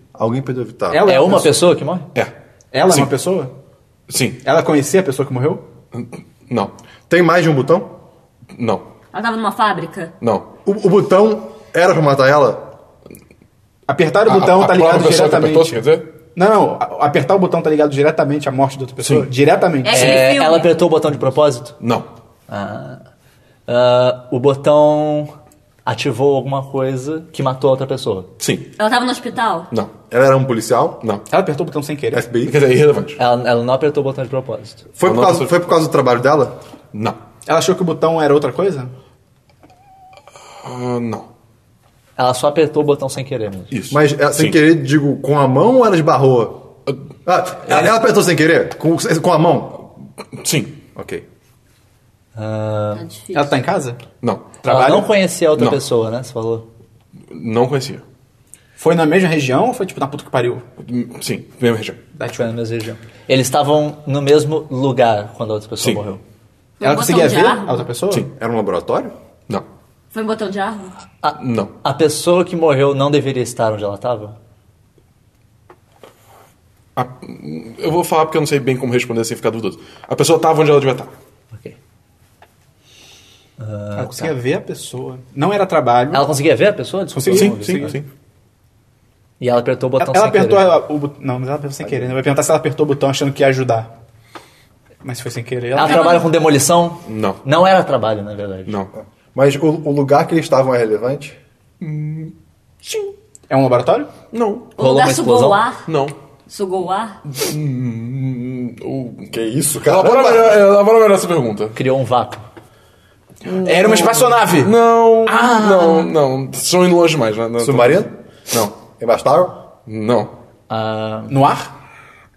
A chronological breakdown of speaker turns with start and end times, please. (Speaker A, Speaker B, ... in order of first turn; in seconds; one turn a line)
Speaker A: 0.1-1.2
Speaker B: 0.9-1.6
Speaker C: 1.0-2.1
Speaker B: 2.7-3.5
Speaker D: 4.1-4.4
Speaker B: 4.4-5.7
Speaker D: 5.9-6.7
Speaker A: 7.1-8.0
Speaker D: 8.5-8.9
Speaker E: 9.1-10.1
Speaker D: 10.2-10.5
Speaker A: 10.7-12.7
Speaker B: 13.9-15.8
Speaker D: 14.3-16.1
Speaker B: 16.4-20.1
Speaker D: 19.0-19.3
Speaker E: 19.8-20.7
Speaker C: 19.9-21.8
Speaker D: 21.8-22.1
Speaker C: 22.5-23.0
Speaker C: 23.7-25.3
Speaker C: 25.9-28.3
Speaker D: 28.4-28.7
Speaker E: 28.8-29.7
Speaker A: 30.1-31.0
Speaker B: 31.3-32.3
Speaker A: 32.1-32.6
Speaker D: 32.4-33.2
Speaker C: 33.2-34.9
Speaker A: 35.0-36.6
Speaker D: 35.0-35.5
Speaker D: 36.9-37.2
Speaker B: 37.5-38.9
Speaker D: 40.6-41.3
Speaker C: 42.2-43.7
Speaker D: 43.7-44.6
Speaker A: 43.9-46.7
Speaker A: 47.2-49.9
Speaker D: 50.4-50.8
Speaker A: 51.0-51.2
Speaker C: 52.4-53.1
Speaker E: 52.9-53.5
Speaker B: 53.3-54.0
Speaker D: 54.2-54.6
Speaker B: 54.6-55.2
Speaker C: 54.6-56.7
Speaker D: 55.5-55.8
Speaker D: 57.3-58.0
Speaker B: 58.8-60.6
Speaker D: 60.8-62.0
Speaker B: 62.2-62.5
Speaker C: 62.3-66.2
Speaker E: 66.8-67.9
Speaker B: 66.8-68.3
Speaker A: 68.3-69.1
Speaker E: 70.1-71.0
Speaker C: 71.2-74.3
Speaker D: 71.4-71.7
Speaker D: 77.0-81.1
Speaker C: 83.6-84.3
Speaker B: 84.0-86.3
Speaker C: 86.1-88.0
Speaker B: 87.1-88.0
Speaker D: 87.3-88.1
Speaker C: 89.4-90.8
Speaker B: 90.0-93.9
Speaker A: 91.8-92.1
Speaker B: 95.0-96.2
Speaker C: 95.8-98.8
Speaker E: 95.8-96.3
Speaker D: 97.1-97.4
Speaker A: 98.9-101.4
Speaker D: 101.8-103.1
Speaker B: 103.5-104.1
Speaker D: 104.3-104.8
Speaker E: 104.8-105.8
Speaker C: 104.8-105.7
Speaker D: 105.9-106.1
Speaker E: 106.5-107.2
Speaker D: 107.3-111.8
Speaker A: 109.3-110.6
Speaker C: 111.8-112.4
Speaker B: 113.5-116.1
Speaker E: 113.6-114.2
Speaker D: 114.5-118.8
Speaker A: 117.6-118.2
Speaker A: 118.9-119.6
Speaker D: 119.9-120.3
Speaker C: 120.7-121.4
Speaker B: 121.3-121.7